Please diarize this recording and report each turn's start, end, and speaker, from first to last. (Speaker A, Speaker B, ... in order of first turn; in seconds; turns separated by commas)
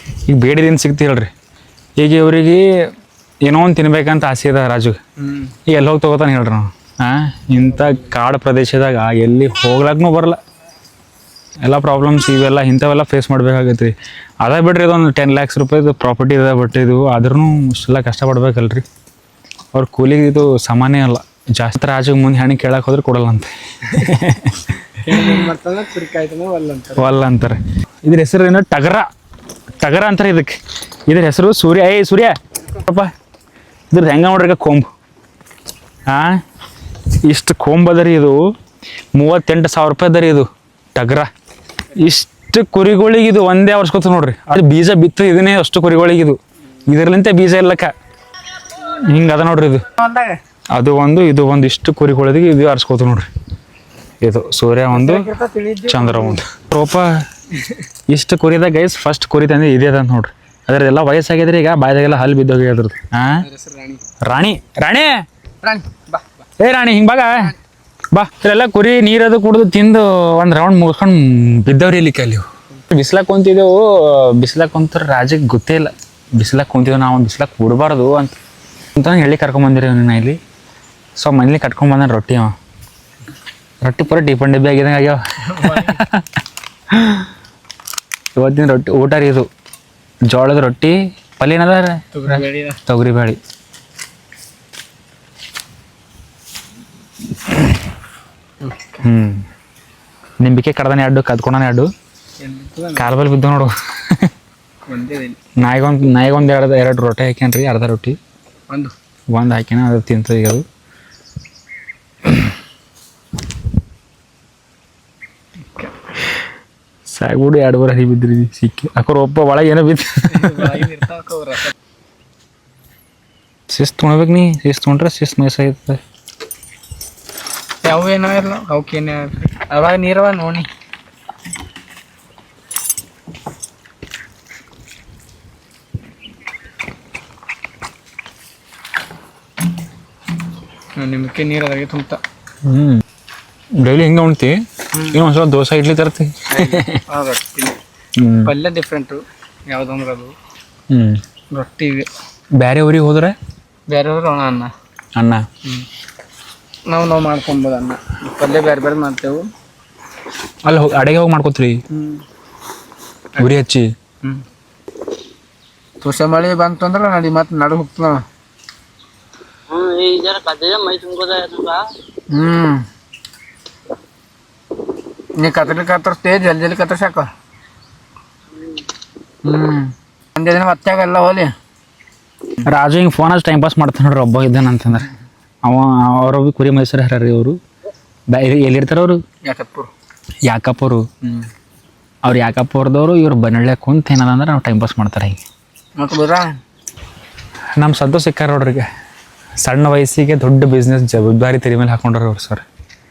Speaker A: 0.3-1.3, Speaker A: 2.0-2.9, Speaker A: 3.4-5.0, Speaker B: 5.2-5.5, Speaker A: 5.7-10.4, Speaker A: 11.6-18.9, Speaker A: 19.7-25.3, Speaker B: 25.0-27.2, Speaker A: 27.0-29.1, Speaker A: 29.8-30.5, Speaker A: 31.1-33.1, Speaker A: 33.9-34.9, Speaker A: 36.1-36.4, Speaker A: 37.2-38.4, Speaker A: 39.1-41.3, Speaker A: 42.0-47.9, Speaker A: 48.9-49.9, Speaker B: 50.0-50.3, Speaker A: 50.7-53.3, Speaker A: 54.2-55.3, Speaker B: 54.9-56.4, Speaker A: 55.9-57.3, Speaker A: 58.1-63.5, Speaker B: 63.4-64.0, Speaker A: 64.2-65.2, Speaker B: 65.6-66.4, Speaker A: 66.6-67.5, Speaker A: 68.1-78.3, Speaker A: 79.0-80.4, Speaker A: 81.2-82.5, Speaker A: 83.8-86.2, Speaker B: 85.5-86.0, Speaker A: 86.9-87.2, Speaker A: 88.4-89.5, Speaker A: 90.3-93.4, Speaker B: 92.1-92.8, Speaker B: 98.6-99.0, Speaker A: 99.0-99.4, Speaker A: 100.4-101.9, Speaker B: 102.4-103.1, Speaker A: 103.0-104.3, Speaker B: 104.9-105.4, Speaker A: 105.6-108.2, Speaker A: 109.3-110.6, Speaker A: 117.1-120.8, Speaker B: 120.3-121.7, Speaker A: 123.7-126.0, Speaker B: 127.8-130.7, Speaker B: 141.0-142.2, Speaker A: 142.6-143.0, Speaker A: 143.8-147.0, Speaker B: 146.5-147.8, Speaker A: 148.2-148.5, Speaker B: 148.4-150.4, Speaker A: 150.9-151.2, Speaker B: 151.5-152.1, Speaker A: 152.6-153.4, Speaker B: 153.9-154.7, Speaker A: 155.2-155.4, Speaker B: 156.9-159.5, Speaker A: 160.6-161.8, Speaker B: 161.9-162.2, Speaker A: 163.4-163.9, Speaker B: 166.0-168.2, Speaker C: 169.7-171.8, Speaker B: 172.3-172.8, Speaker B: 175.4-177.3, Speaker B: 179.4-181.5, Speaker A: 182.7-185.1, Speaker A: 185.6-187.6, Speaker A: 188.3-189.2, Speaker B: 189.4-189.9, Speaker A: 190.4-191.1, Speaker A: 192.2-195.4, Speaker B: 196.0-196.5, Speaker A: 197.8-198.9, Speaker A: 199.6-202.7